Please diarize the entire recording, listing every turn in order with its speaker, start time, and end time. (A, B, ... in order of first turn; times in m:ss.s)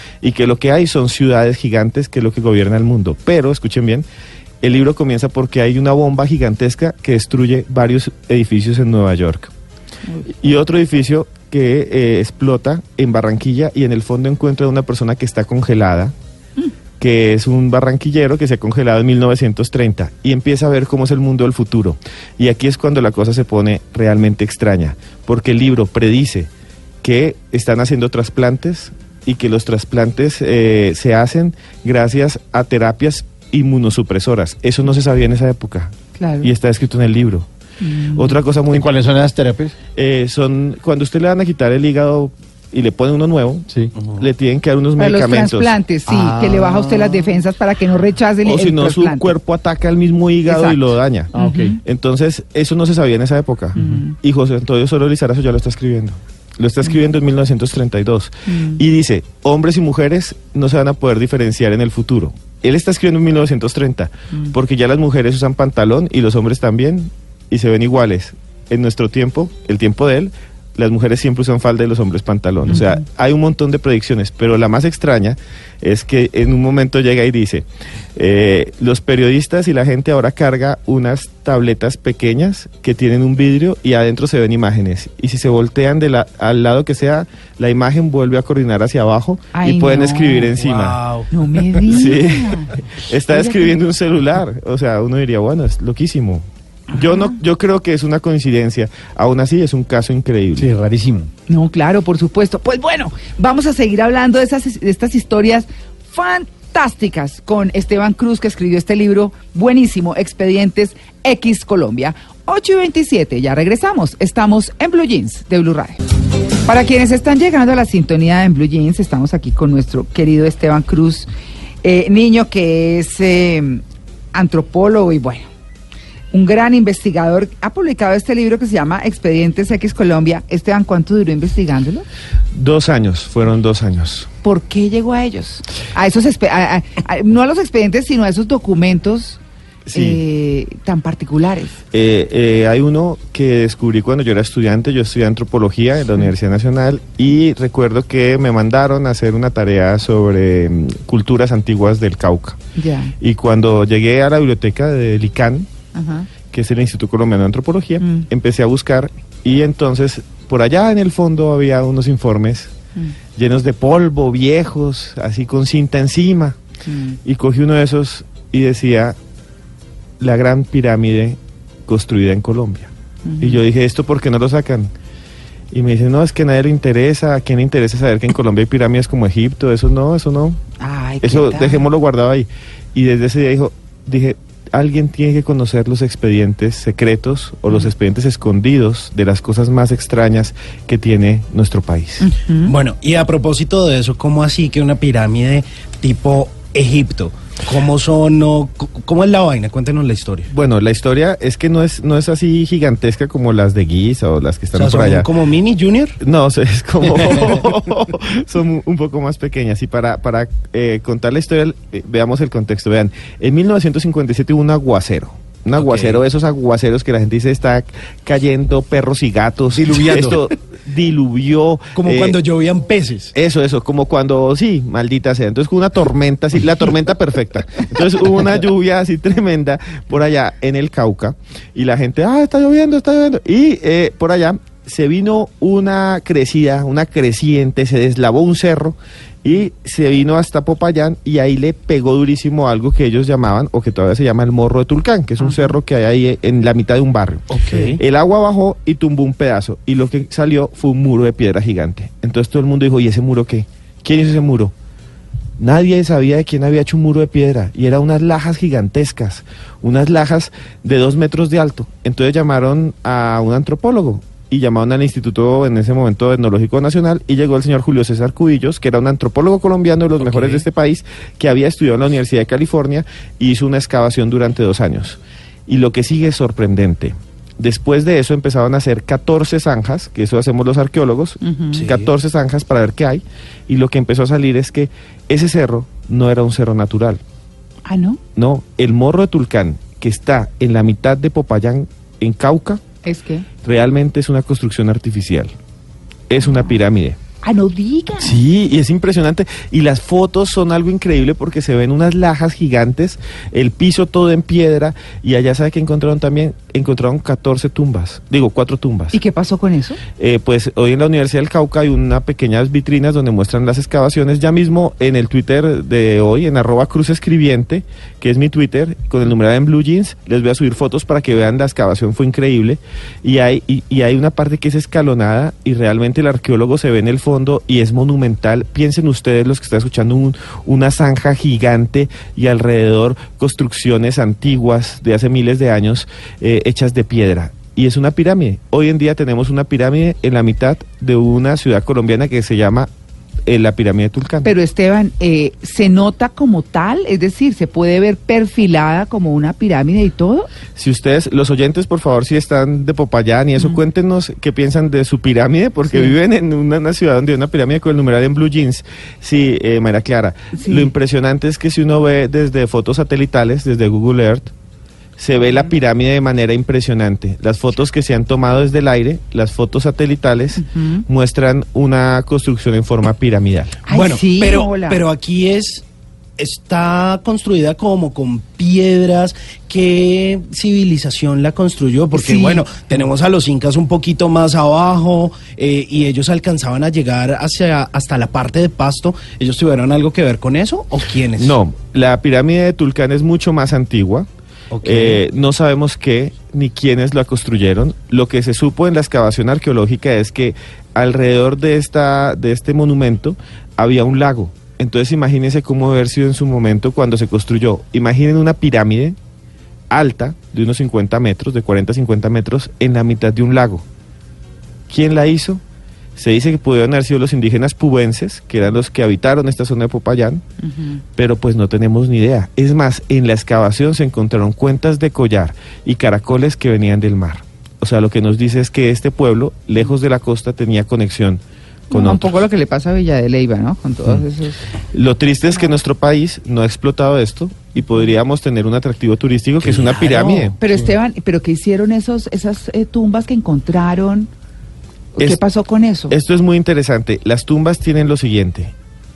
0:00.2-0:04.0 A
0:04.6-0:09.5 A
0:10.3-0:16.1 A
0:17.0-0:26.5 A
0:27.0-0:37.5 A
0:36.2-0:36.5 B
0:37.8-0:38.4 B
0:38.1-0:38.9 A
0:38.7-0:39.8 C
0:39.9-0:45.7 A
0:45.0-0:49.3 B
0:46.1-0:47.3 C
0:48.4-1:31.0 A
0:50.5-0:51.8 B
0:51.3-0:51.8 C
0:53.8-0:54.0 C
0:53.8-0:54.2 B
0:58.5-0:58.8 B
1:12.7-1:13.0 B
1:29.5-1:30.5 B
1:30.5-1:31.3 D
1:31.3-1:33.8 B
1:31.8-1:40.7 A
1:36.9-1:37.4 B
1:40.6-1:41.3 C
1:41.5-1:56.0 B
1:56.6-2:01.3 B
2:01.8-2:03.8 B
2:04.3-2:05.5 B
2:06.3-2:12.0 B
2:12.5-2:14.3 A
2:14.4-2:19.4 B
2:19.9-2:20.2 A
2:19.9-2:21.8 B
2:21.9-2:32.6 A
2:32.8-2:33.1 B
2:33.2-2:35.7 A
2:35.9-2:36.3 B
2:36.5-2:42.7 A
2:38.0-2:38.3 B
2:43.4-2:46.6 A
2:46.8-2:47.2 B
2:47.2-2:49.2 A
2:50.2-2:54.9 A
2:53.2-2:53.6 B
2:55.7-3:00.6 A
3:00.8-3:01.8 B
3:01.2-3:12.3 A
3:12.2-3:12.7 B
3:12.6-3:20.5 D
3:20.5-3:25.3 A
3:24.7-3:26.2 D
3:26.2-3:42.4 A
3:35.8-3:36.2 D
3:39.7-3:40.4 D
3:40.1-3:40.4 C
3:41.9-3:43.3 D
3:43.3-4:14.7 A
4:07.5-4:08.0 D
4:15.6-4:47.2 A
4:30.3-4:30.6 D
4:41.4-4:41.8 B
4:41.7-4:42.1 D
4:47.8-4:48.2 B
4:48.4-4:52.8 A
4:53.0-4:53.4 B
4:53.6-4:55.5 A
4:56.3-4:57.2 A
4:57.4-4:58.4 B
4:58.2-5:09.2 A
5:09.1-5:10.0 B
5:10.2-5:42.9 A
5:43.4-5:44.5 A
5:44.4-5:50.5 B
5:50.8-6:04.5 A
6:00.5-6:00.9 B
6:05.2-6:13.8 A
6:10.6-6:11.0 B
6:13.9-6:15.0 B
6:13.9-6:15.8 D
6:16.4-6:31.6 D
6:22.1-6:22.6 B
6:31.4-6:34.3 A
6:34.7-6:35.2 D
6:34.8-6:49.2 A
6:49.9-6:53.8 A
6:54.9-6:55.6 A
6:56.2-7:00.4 A
7:00.6-7:01.0 B
7:01.2-7:12.3 A
7:11.9-7:14.6 B
7:14.9-7:20.6 A
7:19.6-7:20.8 D
7:20.6-7:24.3 B
7:25.1-7:26.2 B
7:26.1-7:28.7 A